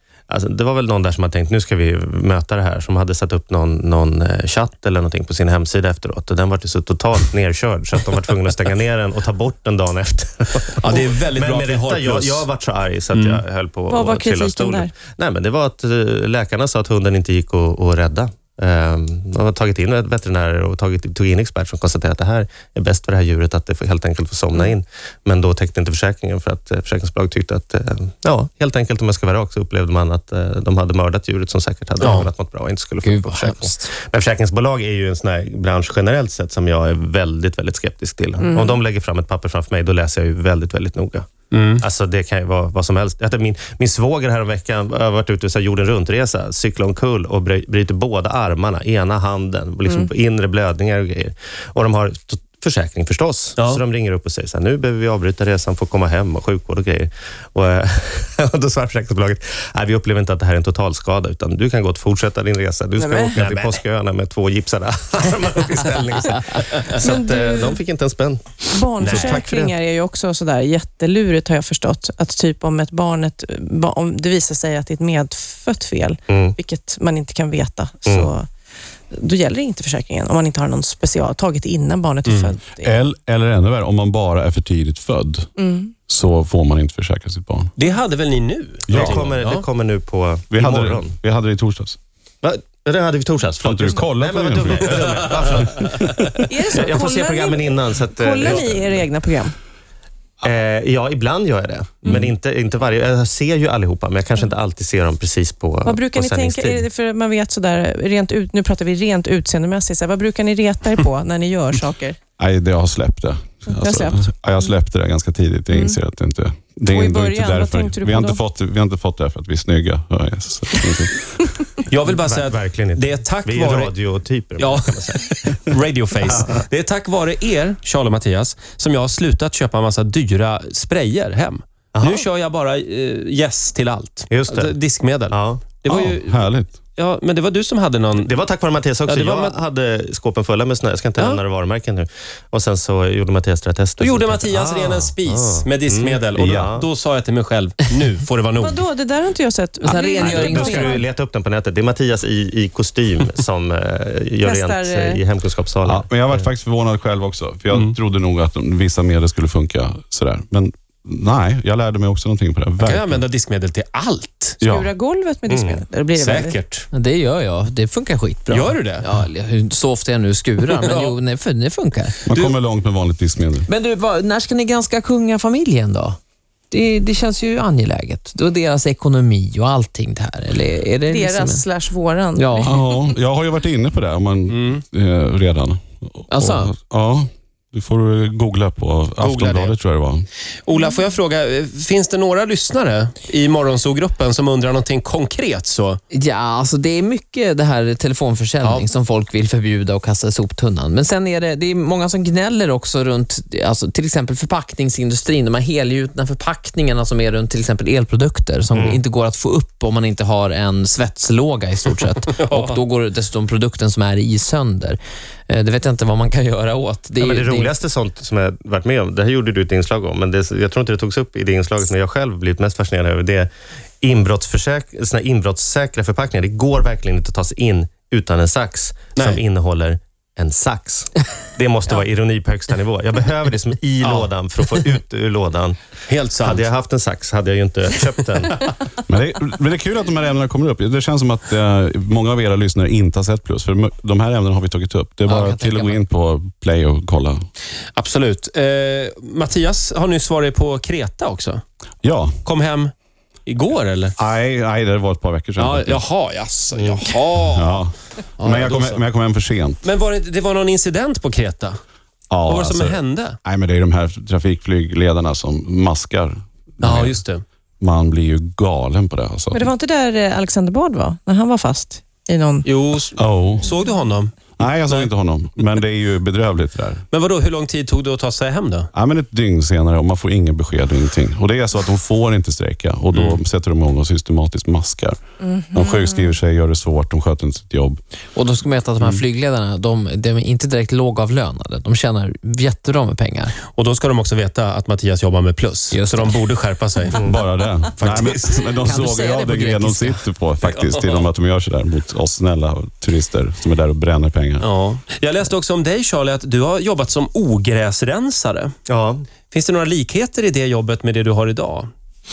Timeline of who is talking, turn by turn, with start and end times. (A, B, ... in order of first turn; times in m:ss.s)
0:00.3-1:09.7 A
0:10.8-0:12.5 B
0:13.1-0:13.4 B
0:13.9-0:14.9 C
0:32.0-0:32.3 B
0:33.0-0:33.9 D
0:38.4-0:38.8 C
0:41.5-0:41.8 B
1:03.0-1:03.4 C
1:03.4-1:03.8 B
1:07.0-1:07.8 C
1:08.7-1:18.5 C
1:09.0-1:09.4 B
1:16.3-1:16.5 A
1:18.1-1:18.3 A
1:19.1-1:23.1 C
1:22.2-1:22.5 B
1:22.8-1:25.5 E
1:25.6-1:25.9 C
1:26.1-1:27.7 E
1:27.8-1:29.6 B
1:28.9-1:29.3 E
1:28.9-1:31.1 A
1:30.5-1:32.0 E
1:32.4-1:39.0 A
1:33.6-1:35.5 E
1:36.4-1:39.5 C
1:40.4-1:46.8 A
1:45.8-1:52.2 C
1:52.4-2:01.5 E
1:53.7-1:54.7 C
1:55.7-1:56.0 C
1:56.9-1:58.4 C
2:01.9-2:04.0 B
2:02.1-2:05.6 A
2:04.6-2:18.4 B
2:11.9-2:12.2 A
2:14.3-2:14.7 A
2:15.3-2:15.6 A
2:15.8-2:16.7 E
2:18.2-2:26.9 A
2:19.0-2:19.6 B
2:24.0-2:28.8 B
2:26.3-2:26.7 E
2:28.6-2:31.0 C
2:29.8-2:31.0 D
2:30.2-2:36.1 A
2:34.4-2:35.2 C
2:35.8-2:43.2 E
2:37.7-2:37.9 B
2:42.8-2:44.6 B
2:44.6-2:44.9 E
2:44.6-2:46.6 C
2:45.5-2:45.8 A
2:46.2-2:46.9 B
2:46.9-2:52.2 D
2:48.5-2:49.1 B
2:50.7-2:51.2 B
2:52.2-2:53.7 E
2:53.7-2:56.2 D
2:56.7-3:01.6 D
3:01.1-3:02.7 C
3:02.4-3:02.7 D
3:02.6-3:10.3 E
3:04.5-3:04.8 B
3:06.3-3:06.7 D
3:09.2-3:09.8 B
3:10.6-3:16.0 B
3:16.1-3:35.0 D
3:18.6-3:18.9 B
3:28.7-3:29.0 A
3:32.2-3:32.8 B
3:35.5-3:37.8 D
3:37.2-3:43.5 A
3:44.0-3:55.8 A
3:54.0-3:54.3 B
3:56.1-3:56.7 B
3:56.4-3:58.7 A
3:59.0-4:07.4 E
4:05.2-4:06.0 D
4:07.9-4:11.6 B
4:12.0-4:12.4 E
4:12.4-4:12.9 B
4:13.4-4:14.1 B
4:14.2-4:16.0 E
4:15.6-4:17.8 B
4:16.7-4:17.1 A
4:17.4-4:19.8 E
4:18.4-4:19.0 B
4:19.8-4:21.8 B
4:22.3-4:27.2 E
4:22.4-4:23.4 B
4:26.8-4:27.4 B
4:27.8-4:29.7 E
4:29.5-4:32.7 C
4:32.6-4:35.1 B
4:33.2-4:33.8 E
4:34.6-4:37.0 E
4:37.1-4:38.9 B
4:38.9-4:45.2 E
4:43.1-4:43.4 B
4:45.7-4:48.0 E
4:48.4-4:53.6 D
4:53.6-4:57.3 B
4:55.9-4:56.4 D
4:57.1-5:04.6 E
4:58.0-4:58.7 B
4:58.8-5:00.2 D
5:00.6-5:01.2 B
5:04.6-5:08.7 B
5:08.9-5:09.2 A
5:09.5-5:11.9 B